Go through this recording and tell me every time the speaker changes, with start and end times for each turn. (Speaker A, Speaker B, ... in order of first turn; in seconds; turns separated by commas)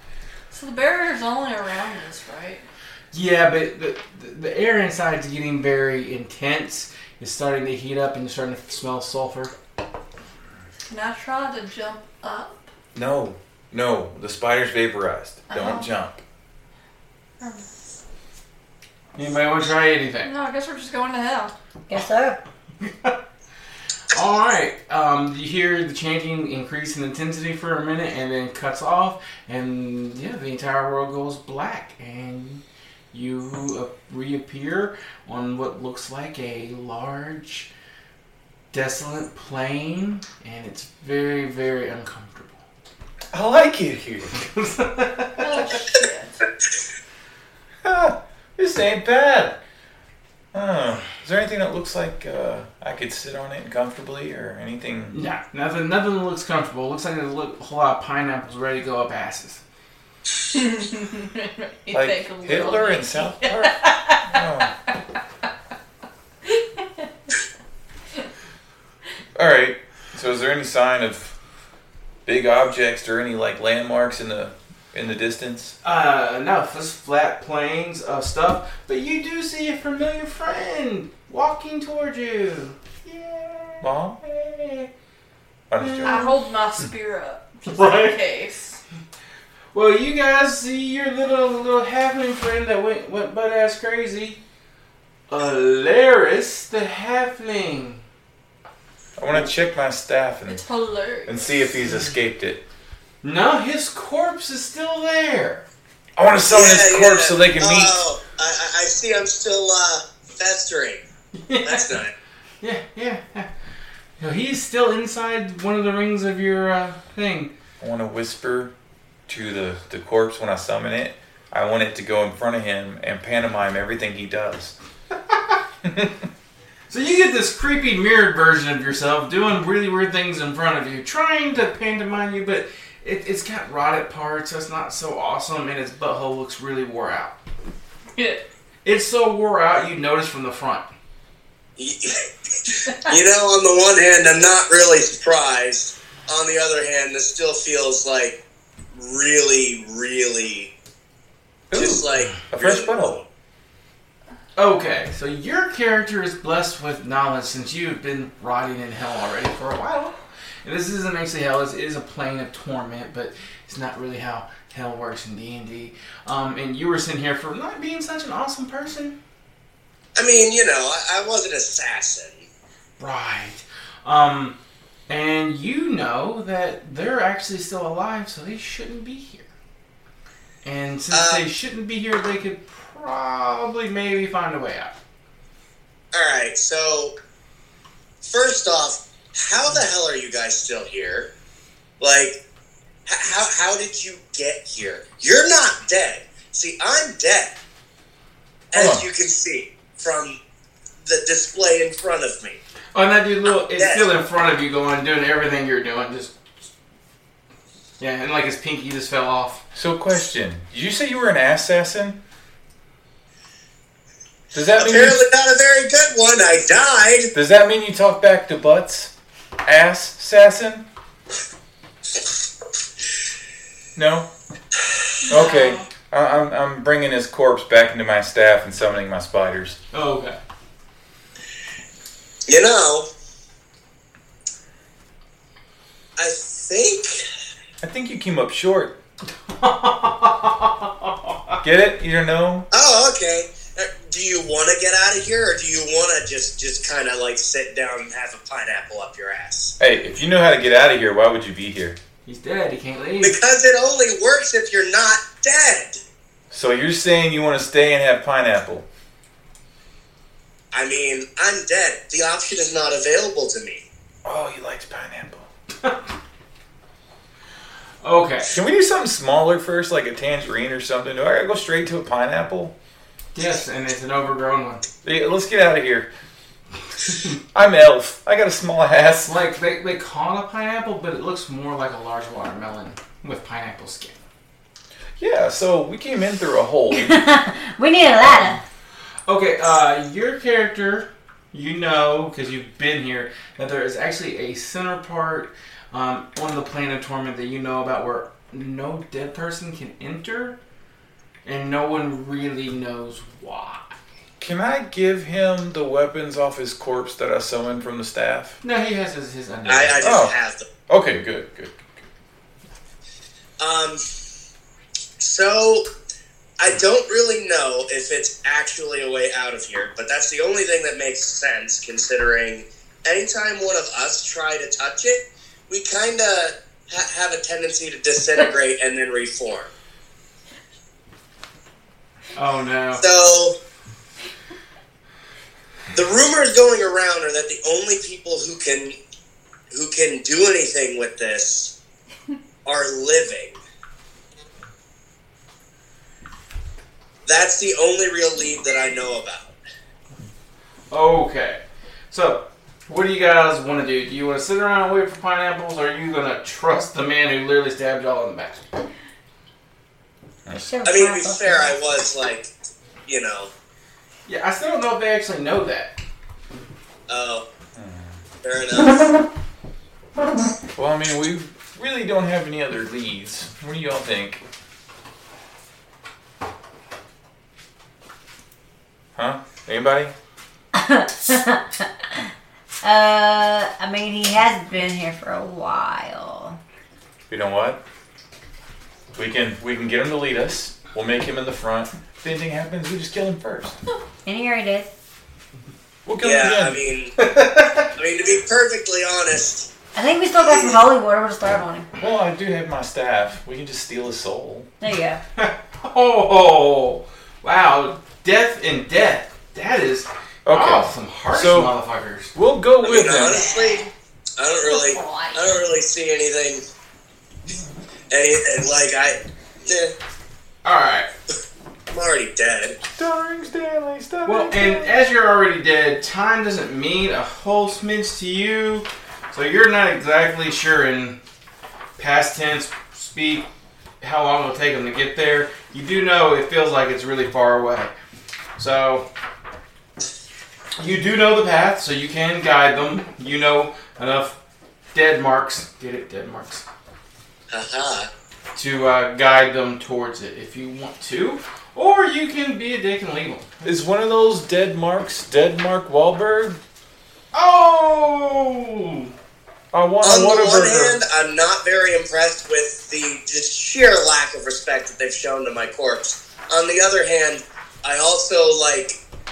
Speaker A: 0.5-2.6, Speaker B: 3.1-9.5, Speaker A: 10.9-12.7, Speaker C: 12.9-16.2, Speaker A: 15.5-15.9, Speaker A: 17.4-17.7, Speaker B: 19.1-20.3, Speaker A: 20.2-21.5, Speaker D: 21.9-22.4, Speaker B: 22.8-23.1, Speaker B: 24.1-37.7, Speaker B: 38.7-42.6, Speaker C: 43.3-44.3, Speaker B: 44.4-45.8, Speaker A: 45.4-46.4, Speaker C: 47.8-49.6, Speaker C: 50.5-55.2, Speaker B: 55.1-59.6, Speaker A: 60.5-64.7, Speaker C: 61.9-64.7, Speaker A: 66.5-67.3, Speaker C: 69.3-71.3, Speaker C: 72.2-75.8, Speaker B: 75.8-84.9, Speaker C: 83.8-84.2, Speaker C: 85.7-86.3, Speaker B: 85.8-86.3, Speaker A: 86.0-88.8, Speaker B: 87.7-88.2, Speaker B: 89.7-94.4, Speaker B: 95.3-98.0, Speaker C: 99.2-100.6, Speaker A: 100.5-101.5, Speaker C: 101.2-102.6, Speaker B: 103.2-105.6, Speaker C: 106.2-108.0, Speaker E: 106.4-111.0, Speaker B: 111.3-112.0, Speaker E: 111.6-112.1, Speaker B: 112.6-113.5, Speaker B: 114.2-117.5, Speaker C: 117.8-118.7, Speaker C: 119.3-124.7, Speaker B: 125.3-125.6, Speaker C: 125.8-126.1, Speaker B: 126.9-137.3, Speaker A: 138.2-138.4, Speaker B: 138.8-140.8, Speaker E: 141.8-148.4, Speaker E: 148.9-150.7, Speaker C: 151.7-153.2, Speaker E: 151.7-153.2, Speaker B: 154.6-169.2, Speaker E: 170.2-172.4, Speaker B: 173.0-174.6, Speaker B: 175.1-179.5, Speaker B: 180.6-184.9, Speaker E: 181.1-181.4, Speaker E: 186.1-187.1, Speaker E: 188.2-191.3, Speaker E: 192.0-192.4, Speaker E: 193.1-197.6, Speaker E: 198.7-200.4, Speaker C: 198.7-199.0, Speaker E: 201.0-202.6, Speaker B: 202.9-206.5, Speaker E: 203.7-204.1, Speaker B: 208.0-209.6, Speaker C: 209.7-212.2, Speaker C: 214.5-215.2, Speaker E: 214.7-217.3, Speaker C: 217.3-219.1, Speaker C: 219.6-220.8, Speaker C: 223.9-224.3, Speaker A: 225.2-225.8, Speaker C: 225.2-229.8, Speaker B: 229.9-230.4, Speaker E: 232.5-233.1, Speaker E: 236.2-237.2, Speaker C: 237.8-238.9, Speaker B: 239.4-241.6, Speaker C: 241.6-242.7, Speaker E: 242.7-249.8, Speaker C: 249.8-252.0, Speaker B: 252.2-253.4, Speaker E: 253.2-256.0, Speaker C: 256.5-258.8, Speaker E: 260.7-263.8, Speaker C: 264.2-265.5, Speaker B: 268.0-268.5, Speaker C: 268.5-272.7, Speaker B: 273.3-274.8, Speaker C: 275.0-276.1, Speaker B: 277.1-277.4, Speaker C: 277.5-279.3, Speaker B: 279.2-284.2, Speaker C: 285.2-287.2, Speaker D: 286.9-288.6, Speaker C: 288.2-288.5, Speaker B: 289.2-300.6, Speaker B: 301.4-304.0, Speaker C: 304.4-308.6, Speaker B: 308.6-310.1, Speaker E: 309.7-310.6, Speaker C: 310.0-310.3, Speaker C: 310.9-311.8, Speaker E: 313.6-314.0, Speaker E: 315.2-315.8, Speaker E: 316.6-329.7, Speaker B: 332.3-333.0, Speaker E: 333.0-333.5, Speaker E: 335.9-338.9, Speaker E: 339.7-341.7, Speaker E: 342.6-343.6, Speaker E: 347.2-349.5, Speaker B: 350.9-358.7, Speaker D: 360.5-361.8, Speaker E: 360.8-362.5, Speaker E: 363.1-363.5, Speaker B: 364.3-365.9, Speaker E: 367.1-367.4, Speaker C: 367.7-368.2, Speaker E: 368.4-369.1, Speaker C: 370.8-374.4, Speaker C: 379.1-380.1, Speaker D: 380.7-382.3, Speaker D: 382.8-386.6, Speaker C: 387.3-387.8, Speaker C: 389.1-393.8, Speaker D: 394.2-394.9, Speaker C: 396.1-396.8, Speaker E: 396.2-397.1, Speaker B: 397.2-397.9, Speaker E: 397.9-399.7, Speaker D: 399.9-401.9, Speaker C: 402.0-404.7, Speaker D: 404.8-405.2, Speaker B: 405.4-412.3, Speaker C: 410.4-411.7, Speaker C: 412.3-413.4, Speaker E: 412.8-413.8, Speaker A: 413.3-413.9, Speaker E: 414.4-416.6, Speaker A: 414.6-415.7, Speaker E: 418.1-419.9, Speaker B: 420.6-421.1, Speaker E: 421.9-422.8, Speaker C: 422.8-425.0, Speaker B: 424.2-431.2, Speaker B: 432.0-433.5, Speaker B: 434.0-437.9, Speaker B: 438.6-439.1, Speaker B: 440.8-444.4, Speaker B: 444.9-446.6, Speaker E: 447.5-448.1, Speaker B: 448.5-453.6, Speaker C: 453.6-456.6, Speaker B: 457.3-459.1, Speaker C: 459.7-461.0, Speaker E: 460.0-469.0